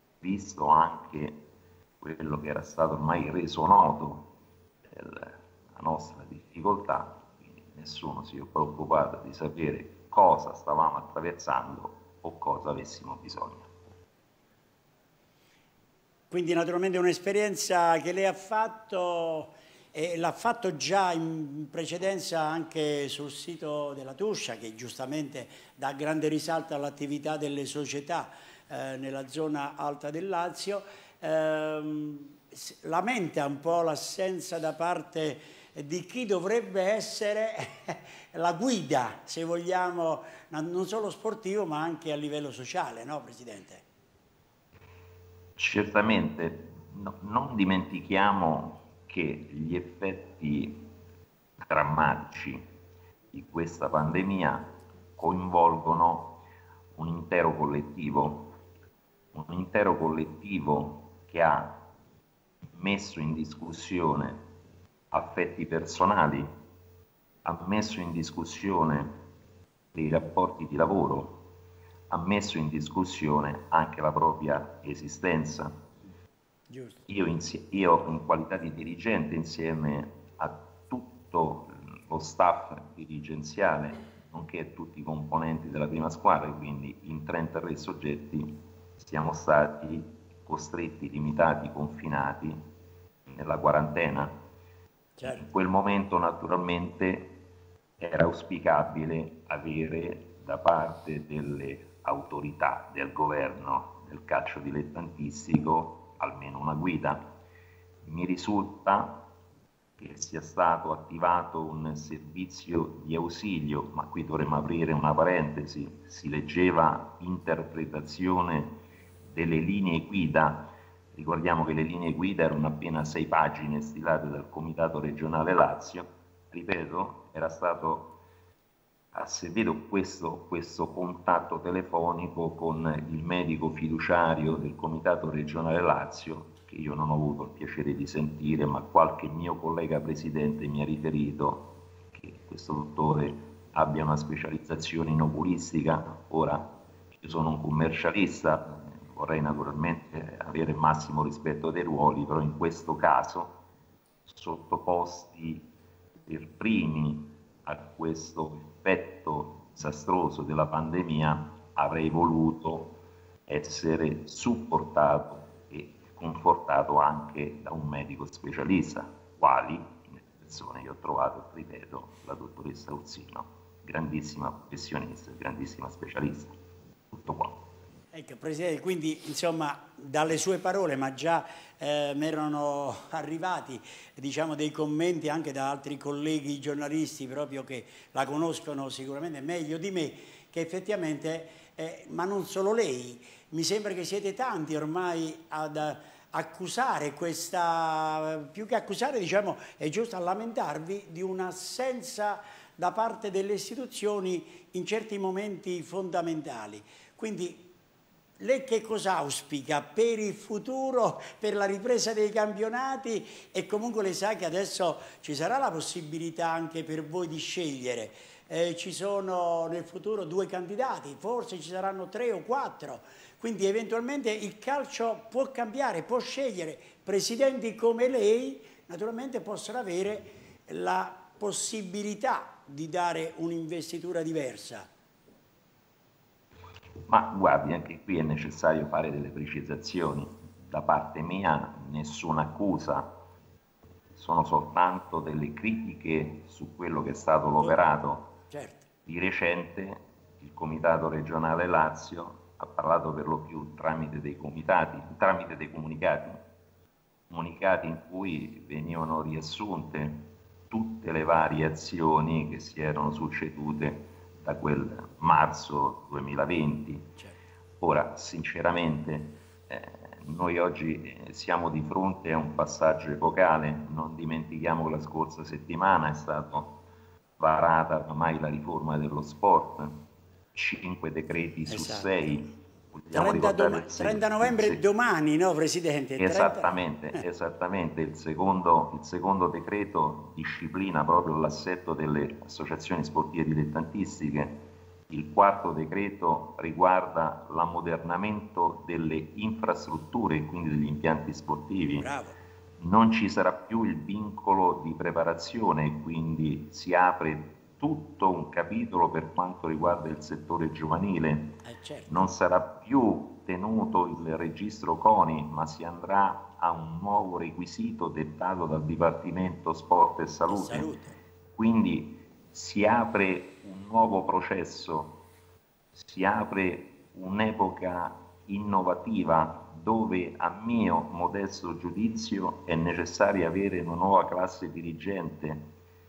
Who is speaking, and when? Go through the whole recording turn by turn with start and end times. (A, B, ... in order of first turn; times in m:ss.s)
0:00.2-0:01.4 A
0:02.0-0:04.3 A
0:04.9-0:13.7 A
0:16.3-0:43.8 B
0:45.6-0:50.9 A
0:51.6-0:52.6 A
0:53.3-0:56.4 A
0:57.0-0:58.5 A
0:59.3-1:01.8 A
1:02.8-1:04.4 A
1:05.1-1:06.5 A
1:07.4-1:09.2 A
1:09.9-1:11.4 A
1:12.1-1:15.8 A
1:16.7-1:17.0 B
1:17.1-1:32.6 A
1:33.3-1:34.3 A
1:35.2-1:35.4 B
1:35.2-1:37.4 A
1:38.0-1:47.3 A
1:48.0-1:49.2 A
1:50.0-1:58.8 A
1:59.3-2:08.2 A
2:09.1-2:33.6 A
2:34.3-2:35.7 A
2:36.3-2:43.0 A
2:43.5-2:56.5 A
2:57.1-2:57.6 A
2:58.1-3:27.7 B
3:28.4-3:54.9 B
3:57.1-4:03.2 A
4:04.2-4:08.3 A
4:08.5-4:08.9 B
4:09.1-4:16.4 A
4:17.3-4:27.2 A
4:27.8-4:36.8 A
4:37.4-4:40.0 A
4:40.5-4:44.8 A
4:41.7-4:42.3 B
4:43.1-4:46.8 B
4:46.2-5:02.1 A
5:02.0-5:02.4 B
5:02.8-5:11.6 A
5:11.6-5:12.1 B
5:12.1-5:20.9 A
5:20.5-5:21.2 B
5:21.6-5:25.2 A
5:26.0-5:35.7 A